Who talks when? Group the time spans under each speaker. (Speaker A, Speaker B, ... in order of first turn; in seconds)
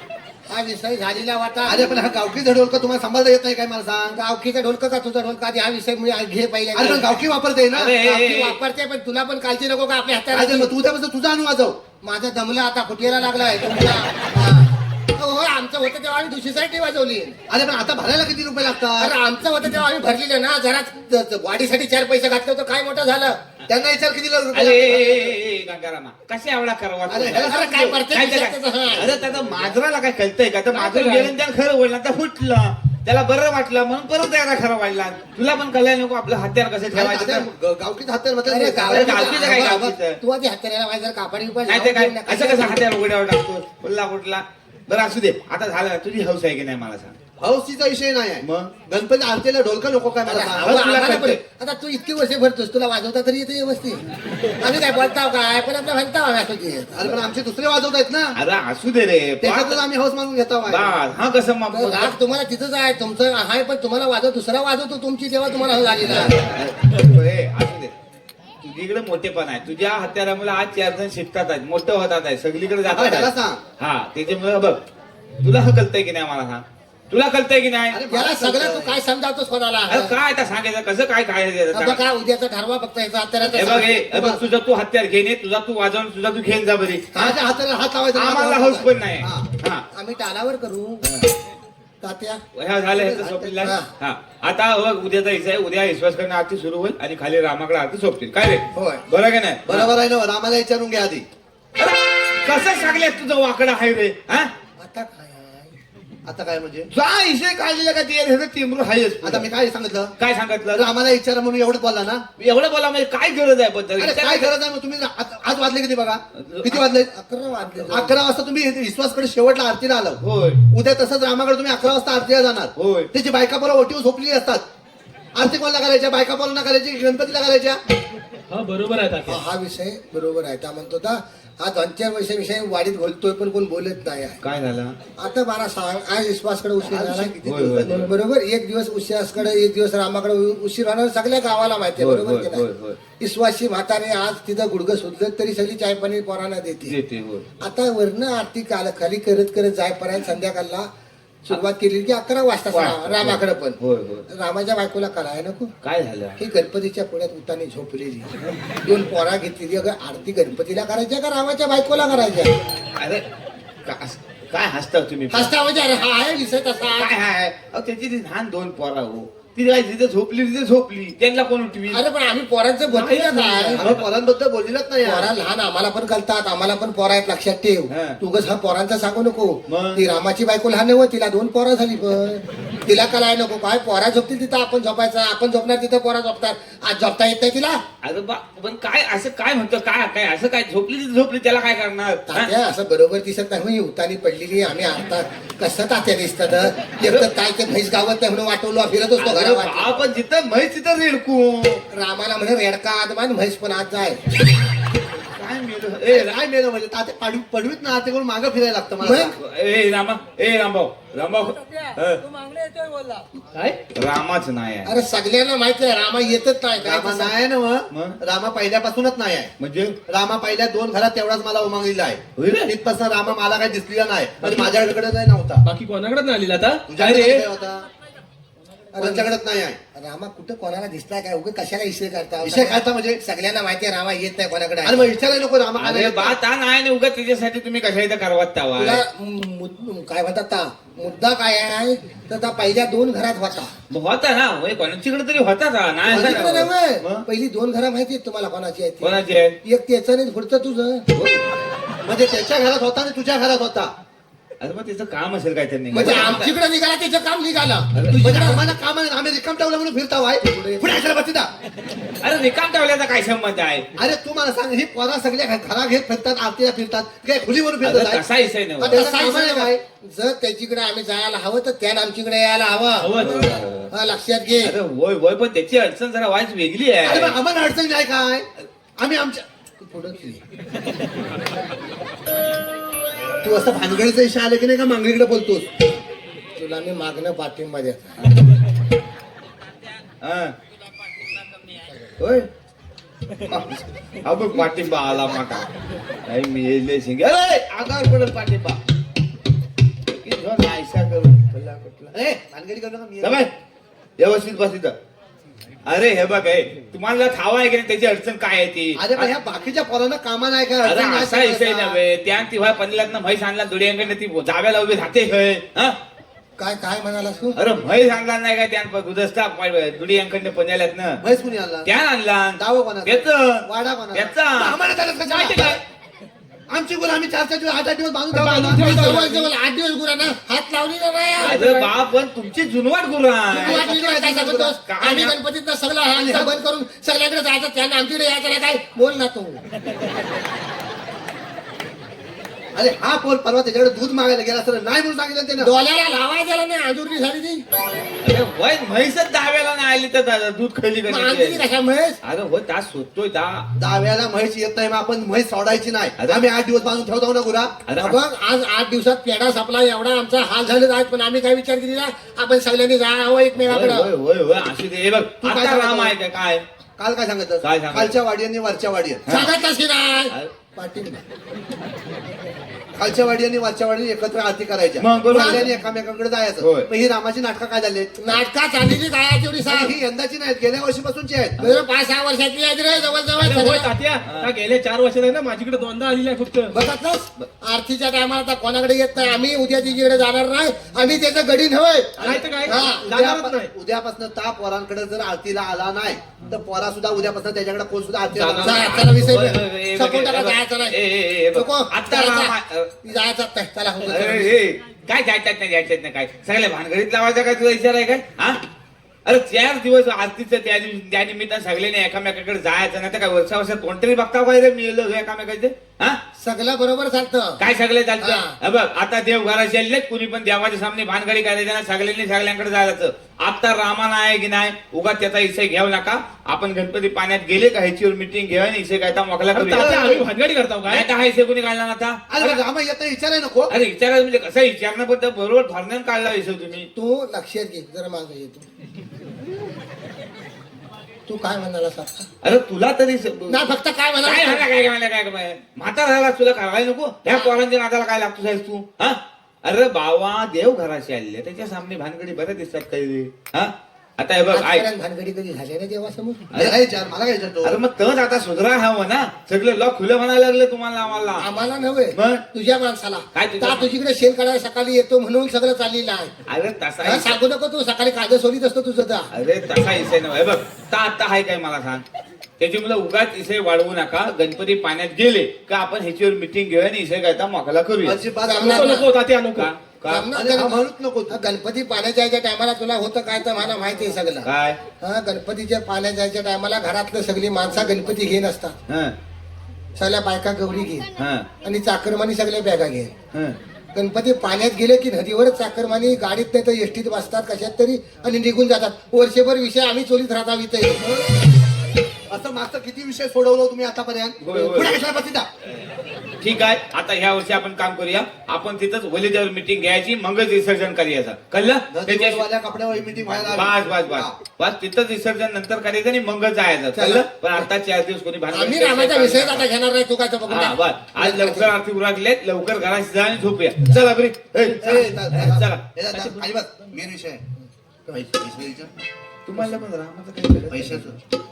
Speaker A: 0.5-2.1, 4.1-7.2, 8.0-10.7, 12.0-17.4, 19.0-23.4, 27.3-29.1, 30.7-31.3, 38.5-42.8, 50.2-54.0, 54.6-57.1, 61.7-66.3, 78.1-80.2, 81.7-84.0, 89.9-91.1, 92.0-92.4, 93.6-93.9, 98.7-99.0, 104.8-105.8, 117.1-118.2, 129.2-134.4, 135.2-142.7, 143.2-146.9, 147.6-150.9, 151.4-153.8, 154.3-155.7, 156.4-158.3, 158.8-162.6, 165.3-167.1, 171.9-173.8, 175.0-187.8, 192.3-199.9, 201.9-204.2, 209.0-209.3, 214.8-217.4, 228.9-229.3, 229.9-235.1, 238.8-243.7, 246.1-251.1, 255.9-258.6, 260.4-261.0, 268.8-273.3, 273.9-274.8, 279.8-280.4, 286.6-288.1, 316.6-317.6, 328.6-331.6, 333.5-339.6, 345.6-347.6, 351.1-352.2, 358.0-364.1, 369.3-371.2, 375.3-375.7, 378.2-379.9, 381.6-383.9, 386.7-393.1, 398.6-401.0, 401.5-404.6, 416.4-417.6, 418.2-418.6, 436.9-438.6, 441.3-442.3, 443.5-444.7, 454.5-456.5, 461.4-466.3, 467.0-469.3, 478.4-479.1, 480.0-488.8, 490.0-491.1, 491.6-493.1, 493.9-501.1, 516.9-517.7, 518.5-521.7
Speaker B: 1.6-4.2, 6.7-7.9, 10.3-11.8, 17.5-19.1, 23.7-25.4, 27.1-28.0, 36.9-39.7, 47.4-50.7, 56.9-58.4, 59.4-60.9, 72.8-73.6, 77.9-79.0, 83.4-84.5, 87.1-89.5, 92.9-93.8, 99.7-101.2, 106.2-106.9, 109.2-110.1, 110.7-112.2, 114.0-117.1, 117.9-124.6, 125.3-127.8, 136.8-138.1, 173.8-175.3, 206.0-209.4, 216.8-219.5, 220.1-225.7, 226.9-227.9, 229.0-229.8, 232.4-233.2, 234.8-236.4, 246.1-246.7, 252.0-253.9, 258.2-261.5, 263.9-268.2, 268.9-269.8, 277.0-279.4, 283.4-285.7, 302.1-303.5, 308.9-312.0, 321.2-321.9, 322.5-325.8, 326.7-329.3, 333.5-334.7, 336.1-336.5, 342.8-345.7, 353.8-357.7, 365.4-366.2, 367.0-369.2, 372.9-378.2, 379.7-381.6, 392.2-399.6, 429.7-430.2, 432.3-433.7, 456.5-457.8, 478.0-479.0, 480.3-481.4, 502.3-505.5, 511.9-514.4, 524.7-527.4, 528.1-528.9, 530.7-531.2
Speaker C: 7.7-8.6, 24.5-37.5, 38.9-40.2, 41.7-47.1, 48.4-48.8, 50.5-51.4, 58.4-59.8, 60.6-62.1, 66.0-67.9, 68.6-74.8, 75.4-78.0, 79.9-82.0, 83.5-87.1, 88.1-89.8, 91.0-91.3, 92.5-99.9, 101.8-104.5, 106.9-109.5, 110.2-110.8, 112.4-114.5, 116.4-116.8, 120.2-120.6, 122.8-123.1, 134.4-134.9, 137.4-138.1, 142.0-143.0, 146.8-147.4, 152.7-154.2, 155.8-156.4, 162.9-163.2, 163.8-165.5, 167.0-172.0, 177.9-178.2, 179.7-180.0, 188.0-192.5, 197.0-197.3, 199.2-201.8, 205.3-206.4, 209.1-212.2, 213.9-214.9, 217.9-218.2, 219.6-220.0, 222.3-222.7, 235.8-239.0, 243.9-247.2, 249.0-249.6, 251.1-251.4, 254.6-256.5, 257.9-258.4, 262.2-263.9, 267.8-269.1, 273.2-273.9, 274.6-277.4, 290.2-290.5, 292.2-292.5, 293.5-295.7, 296.2-298.8, 300.1-302.1, 303.2-303.5, 304.2-304.9, 305.9-309.3, 310.8-316.0, 317.6-321.2, 321.8-324.8, 331.4-333.9, 334.9-335.4, 348.2-351.6, 352.2-353.7, 356.2-356.4, 357.9-358.2, 363.6-366.6, 367.6-368.2, 369.3-369.5, 375.0-375.6, 376.6-376.9, 381.6-381.8, 384.2-384.5, 399.1-402.9, 404.1-408.6, 409.2-416.2, 417.6-430.2, 430.9-432.2, 433.7-436.9, 442.4-443.7, 444.2-454.8, 456.5-456.8, 457.6-461.5, 462.1-462.4, 463.3-463.9, 466.5-467.4, 469.3-472.0, 472.6-478.2, 479.6-480.3, 484.4-484.8, 488.9-489.1, 491.2-491.5, 493.3-493.6, 504.4-505.0, 506.4-512.4, 513.5-519.6, 520.5-525.8, 529.5-531.1
Speaker D: 128.5-129.4, 172.9-173.9, 213.5-213.8, 224.4-224.8, 225.6-227.4, 273.0-273.6, 325.2-325.8, 328.3-329.5, 331.4-331.9, 383.4-386.7, 392.2-393.7, 398.3-399.4, 429.5-431.1, 478.6-479.7, 524.9-525.5, 526.1-526.5